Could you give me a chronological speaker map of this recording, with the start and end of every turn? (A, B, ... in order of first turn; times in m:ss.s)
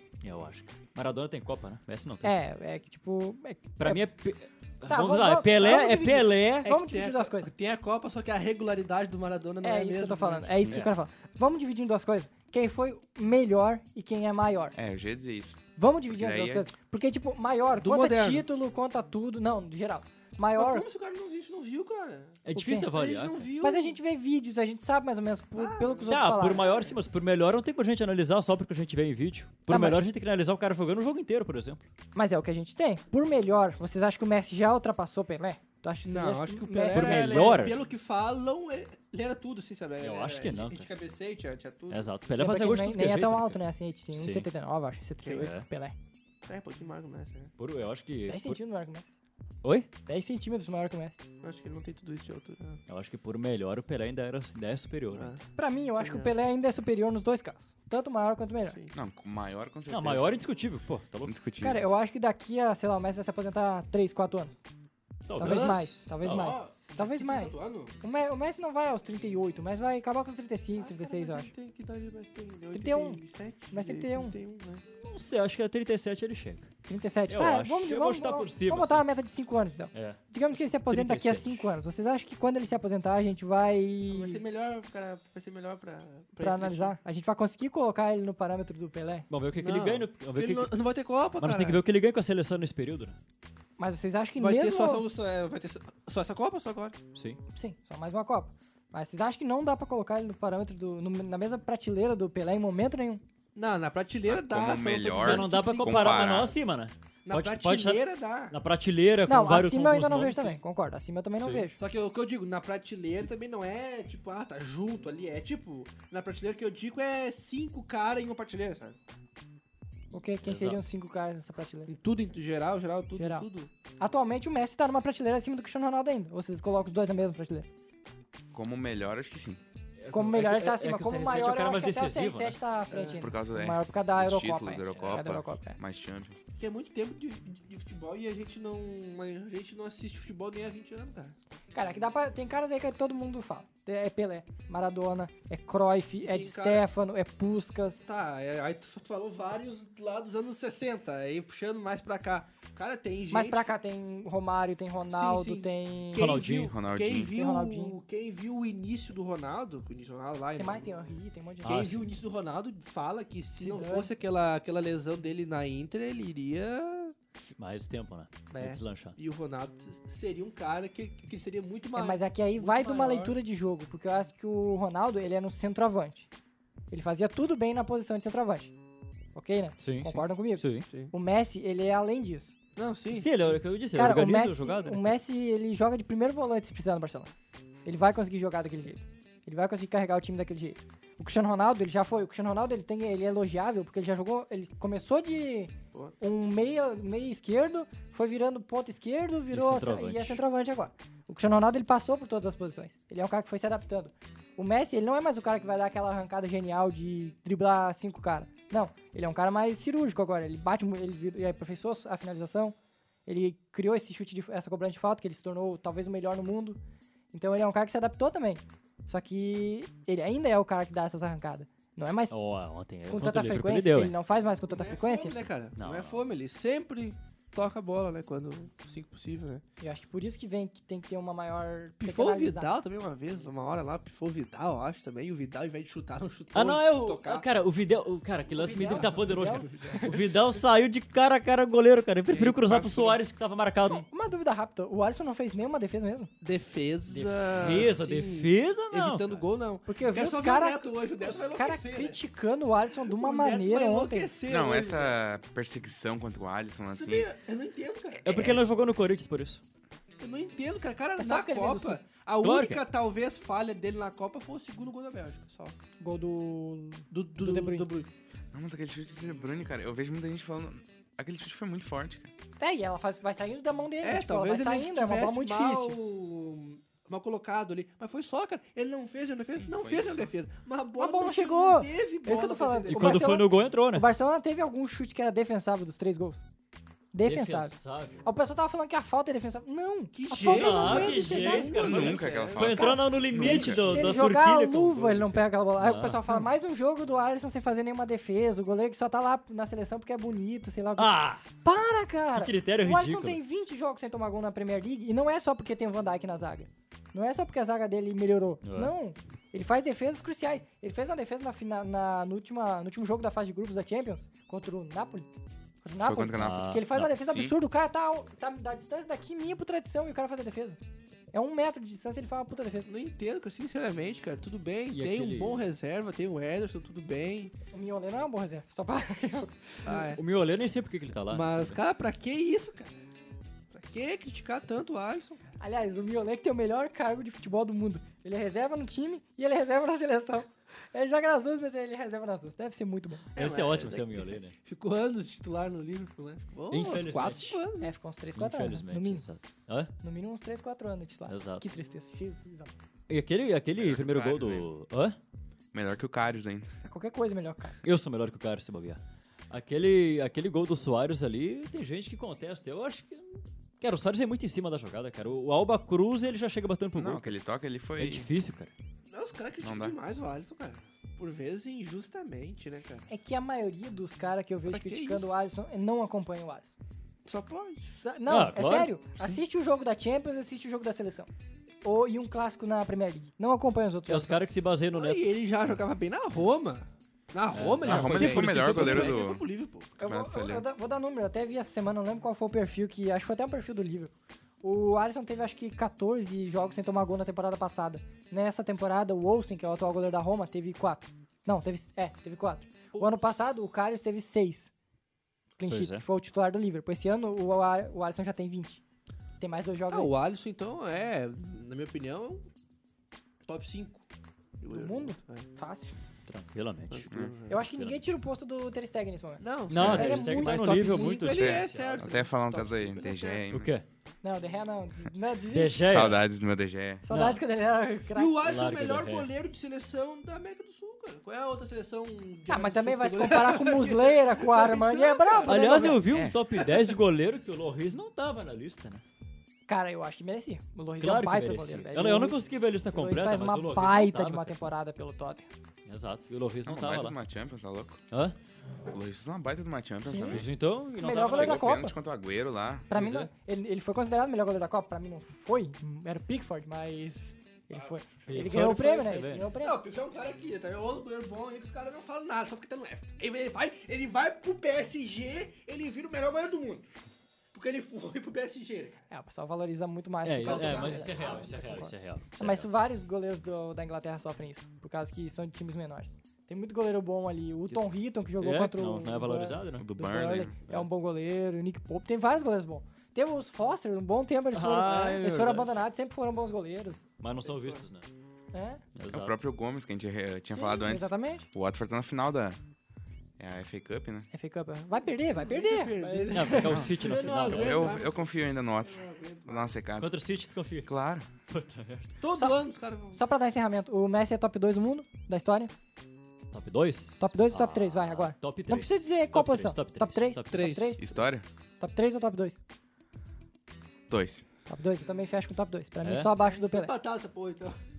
0:00.2-0:02.3 A
0:02.2-0:04.0 B
0:03.8-0:06.7 A
0:04.9-0:07.5 B
0:06.6-0:10.8 C
0:09.6-0:14.8 B
0:14.8-0:16.7 D
0:15.8-0:20.9 B
0:17.8-0:18.5 C
0:20.6-0:22.4 C
0:22.4-0:23.5 A
0:22.6-0:22.9 B
0:22.9-0:24.0 C
0:23.6-0:26.9 B
0:25.6-0:26.9 C
0:26.1-0:31.9 A
0:29.7-0:30.0 B
0:32.2-0:37.5 B
0:36.1-0:42.1 C
0:36.9-0:37.8 A
0:40.0-0:40.9 A
0:41.9-0:43.6 A
0:42.4-0:46.0 B
0:44.1-0:44.5 A
0:45.2-0:45.5 C
0:45.4-0:45.6 A
0:46.4-0:47.5 C
0:47.6-0:48.6 A
0:48.3-0:49.1 B
0:49.6-0:49.9 A
0:50.1-0:51.2 B
0:51.4-0:52.8 C
0:52.9-0:55.4 A
0:55.2-0:55.4 C
0:55.6-0:58.8 B
0:56.0-0:56.3 C
0:58.7-0:58.9 C
0:58.9-1:00.4 D
0:59.9-1:01.4 A
1:01.2-1:01.9 D
1:01.6-1:04.6 B
1:05.3-1:06.6 A
1:05.4-1:11.5 B
1:05.4-1:08.0 C
1:10.8-1:14.8 C
1:12.7-1:13.2 B
1:13.7-1:14.3 B
1:15.0-1:16.7 A
1:16.9-1:24.4 B
1:17.3-1:19.0 A
1:19.9-1:20.2 A
1:20.9-1:21.6 A
1:24.1-1:27.0 C
1:26.4-1:29.3 B
1:29.3-1:30.7 A
1:29.6-1:31.8 C
1:31.4-1:33.2 A
1:33.8-1:35.0 B
1:34.4-1:37.0 C
1:37.1-1:37.4 A
1:37.5-1:43.2 B
1:43.6-1:46.2 C
1:44.3-1:46.6 D
1:45.2-1:50.6 A
1:47.3-1:48.6 C
1:49.3-1:51.8 B
1:51.8-1:59.0 C
2:00.1-2:01.9 B
2:00.4-2:00.8 A
2:01.9-2:03.7 C
2:03.2-2:03.5 B
2:04.0-2:07.7 B
2:08.5-2:09.6 D
2:10.0-2:12.6 A
2:10.1-2:15.8 B
2:12.9-2:13.2 C
2:13.2-2:16.4 D
2:16.6-2:21.4 C
2:21.7-2:28.1 B
2:26.2-2:26.9 C
2:28.0-2:33.7 C
2:33.3-2:36.4 B
2:35.1-2:40.9 C
2:36.2-2:36.8 A
2:36.6-2:37.3 D
2:37.1-2:38.0 B
2:40.6-2:41.7 B
2:41.6-2:42.2 A
2:41.6-2:47.2 C
2:43.6-2:44.1 B
2:47.6-2:49.2 A
2:48.5-2:53.4 C
2:52.0-2:56.3 B
2:56.9-2:58.7 B
2:59.4-3:02.6 B
2:59.8-3:00.9 A
3:02.8-3:03.3 C
3:03.1-3:05.1 A
3:03.9-3:07.3 B
3:07.9-3:36.8 B
3:19.5-3:20.4 A
3:37.3-3:42.4 B
3:42.3-3:44.2 A
3:43.1-3:45.5 B
3:44.7-3:49.6 C
3:45.8-3:46.3 A
3:49.8-3:52.7 B
3:52.0-3:57.4 C
3:56.5-4:04.1 A
3:58.5-4:00.2 C
3:58.6-4:00.0 B
4:02.3-4:03.2 D
4:03.8-4:04.1 D
4:04.1-4:06.3 B
4:06.4-4:12.2 C
4:07.1-4:09.5 A
4:09.9-4:14.3 B
4:13.1-4:15.2 C
4:14.5-4:17.3 D
4:17.0-4:18.6 C
4:18.2-4:19.6 A
4:20.2-4:25.8 C
4:21.2-4:22.0 B
4:22.4-4:22.8 A
4:26.0-4:27.9 B
4:27.1-4:28.1 C
4:28.5-4:32.3 D
4:32.6-4:36.0 B
4:34.0-4:43.4 C
4:39.4-4:40.3 D
4:41.0-4:46.4 B
4:42.9-4:44.1 A
4:47.1-4:51.8 B
4:47.2-4:48.3 A
4:50.1-4:54.1 C
4:50.4-4:56.4 A
4:51.8-4:53.9 D
4:53.4-5:15.3 B
5:01.0-5:01.4 A
5:02.3-5:03.4 A
5:08.6-5:08.9 A
5:15.8-5:20.8 B
5:16.0-5:17.6 D
5:16.4-5:17.0 A
5:21.3-5:22.9 B
5:22.9-5:27.5 C
5:24.9-5:25.7 A
5:27.7-5:30.0 B
5:29.9-5:30.2 C
5:29.9-5:31.8 A
5:31.3-5:32.9 C
5:33.7-5:35.6 C
5:35.6-5:43.2 B
5:43.4-5:47.9 C
5:43.4-5:44.6 A
5:46.7-5:47.6 A
5:47.8-5:49.3 B
5:48.4-5:49.9 A
5:50.0-5:52.7 B
5:51.3-5:51.6 A
5:53.1-5:55.2 A
5:53.8-5:54.6 D
5:55.7-5:56.7 D
5:56.9-5:57.8 B
5:57.8-6:07.3 A
6:07.0-6:08.3 D
6:08.0-6:08.7 A
6:09.1-6:13.1 C
6:09.6-6:10.0 D
6:13.1-6:16.7 B
6:14.7-6:15.3 C
6:17.2-6:17.8 C
6:17.8-6:21.3 B
6:18.3-6:19.4 A
6:21.8-6:24.4 B
6:24.1-6:25.8 A
6:24.9-6:29.9 C
6:27.5-6:29.2 A
6:27.8-6:29.4 D
6:30.0-6:30.7 D
6:30.0-6:44.7 B
6:45.6-6:48.8 B
6:45.7-6:46.0 A
6:49.4-6:50.1 B
6:49.9-6:52.5 C
6:53.4-6:54.0 C
6:54.6-6:55.5 C
6:54.7-6:56.0 B
6:56.3-6:58.1 A
6:56.9-6:57.6 C
6:57.5-7:00.9 B
6:59.4-7:03.4 C
6:59.7-7:02.2 A
6:59.8-7:00.1 D
7:01.3-7:03.7 D
7:03.5-7:03.8 A
7:04.2-7:06.0 B
7:05.5-7:06.2 A
7:05.8-7:07.0 D
7:07.0-7:08.4 B
7:07.1-7:07.4 A
7:08.2-7:16.0 C
7:08.4-7:09.3 A
7:12.5-7:16.0 B
7:15.4-7:19.0 A
7:16.1-7:16.4 D
7:16.6-7:16.9 C
7:19.7-7:22.4 B
7:21.0-7:24.7 A
7:22.9-7:25.5 B
7:25.9-7:27.2 A
7:26.7-7:28.0 D
7:28.1-7:28.4 A
7:28.9-7:30.5 D
7:30.0-7:30.4 B
7:30.3-7:31.7 A
7:31.0-7:32.0 B
7:31.3-7:32.9 D
7:32.9-7:39.8 B
7:32.9-7:33.3 A
7:38.3-7:39.5 A
7:39.6-7:46.9 C
7:47.5-7:49.1 C
7:49.1-8:07.0 B
7:50.2-7:52.7 A
7:50.4-7:51.5 C
7:57.7-7:59.9 A
7:59.8-8:00.6 D
8:04.5-8:05.7 A
8:07.2-8:08.1 A
8:07.4-8:07.8 C
8:08.5-8:08.8 B
8:09.0-8:09.4 A
8:09.1-8:12.6 D
8:10.5-8:11.5 B
8:13.4-8:14.3 D
8:14.3-8:16.9 B
8:15.3-8:19.8 C
8:16.3-8:18.0 A
8:17.4-8:20.2 D
8:20.0-8:20.9 A
8:20.8-8:21.3 D
8:21.5-8:22.1 A
8:22.2-8:23.2 C
8:22.4-8:25.7 B
8:26.5-8:30.9 A
8:27.2-8:31.1 B
8:30.5-8:31.0 C
8:31.0-8:31.5 D
8:31.8-8:32.6 B
8:34.1-8:34.5 D
8:34.7-8:36.9 B
8:36.0-8:36.3 A
8:36.4-8:37.8 C